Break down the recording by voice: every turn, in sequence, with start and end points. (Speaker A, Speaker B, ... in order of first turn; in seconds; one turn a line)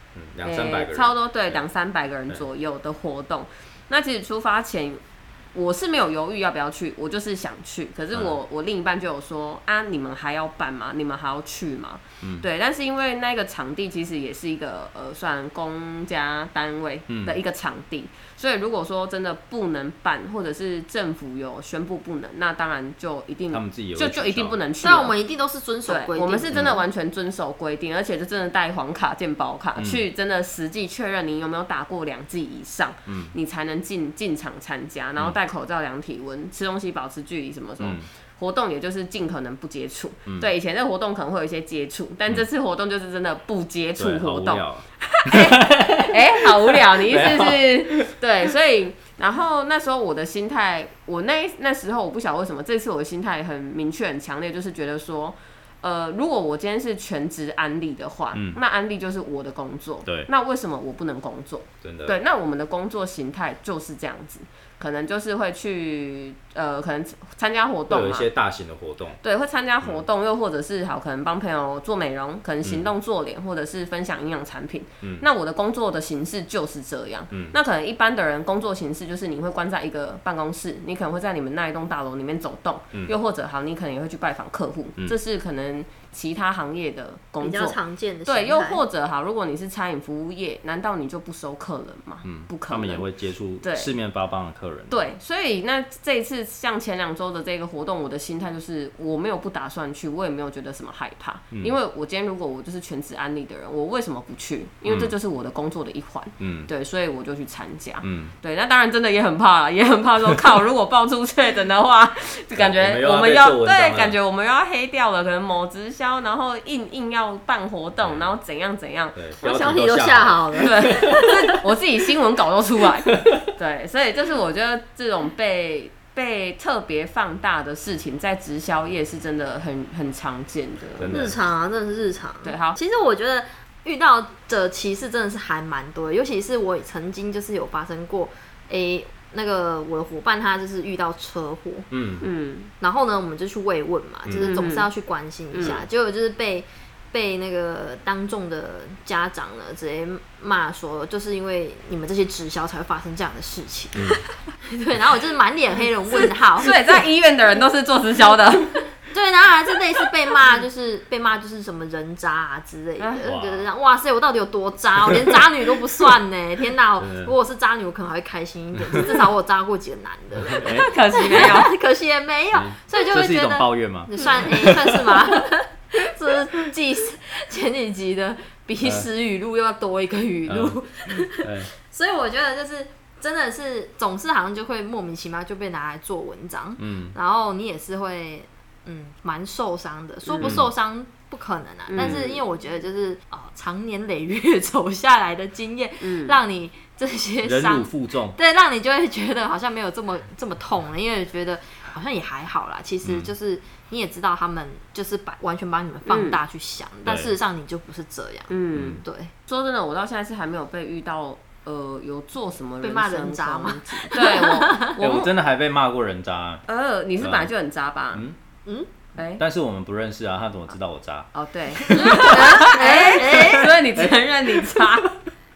Speaker A: 0.1-1.6
Speaker B: 0.4-5.0
Speaker B: 5.5-25.2
Speaker A: 17.1-17.4
Speaker A: 23.5-24.6
Speaker C: 24.8-26.8
Speaker B: 25.9-68.3
Speaker A: 26.5-26.8
Speaker A: 29.8-30.0
Speaker A: 33.1-33.3
Speaker A: 37.8-38.1
Speaker A: 44.0-46.2
Speaker A: 46.7-48.1
Speaker A: 58.3-58.6
Speaker A: 60.0-60.3
Speaker A: 61.8-62.2
Speaker A: 67.9-69.2
Speaker B: 69.2-93.0
Speaker A: 72.6-72.9
Speaker A: 77.3-77.6
Speaker C: 87.4-88.8
Speaker A: 92.2-95.1
Speaker B: 93.6-93.9
Speaker B: 94.9-119.8
Speaker A: 104.9-105.2
Speaker A: 106.4-106.7
Speaker A: 108.0-108.3
Speaker A: 112.5-114.2
Speaker A: 118.0-118.3
Speaker A: 119.2-121.1
Speaker C: 119.4-121.5
Speaker B: 120.5-131.2
Speaker A: 123.1-123.4
Speaker A: 131.0-131.4
Speaker C: 131.1-141.9
Speaker B: 132.4-132.8
Speaker A: 141.9-142.3
Speaker B: 142.2-142.7
Speaker C: 142.8-156.9
Speaker A: 144.2-144.5
Speaker B: 144.4-144.9
Speaker B: 145.5-145.8
Speaker A: 153.9-154.2
Speaker B: 156.6-158.8
Speaker C: 159.1-209.3
Speaker B: 163.0-163.3
Speaker A: 163.2-163.7
Speaker A: 167.0-167.3
Speaker A: 168.8-169.1
Speaker A: 170.4-171.6
Speaker B: 170.7-171.7
Speaker A: 172.5-175.4
Speaker A: 178.8-179.1
Speaker A: 180.5-181.7
Speaker A: 186.8-187.2
Speaker B: 190.2-190.6
Speaker A: 190.4-190.7
Speaker B: 191.9-192.4
Speaker A: 192.0-192.3
Speaker B: 196.0-196.4
Speaker A: 197.4-198.4
Speaker A: 203.0-203.3
Speaker B: 206.1-206.4
Speaker A: 207.1-207.3
Speaker B: 208.5-215.3
Speaker A: 208.7-209.0
Speaker C: 212.8-215.0
Speaker A: 215.0-216.7
Speaker B: 216.7-218.2
Speaker A: 217.2-217.5
Speaker C: 218.7-218.9
Speaker B: 219.2-219.4
Speaker A: 219.4-221.3
Speaker B: 221.3-225.1
Speaker A: 221.8-225.0
Speaker C: 221.9-223.8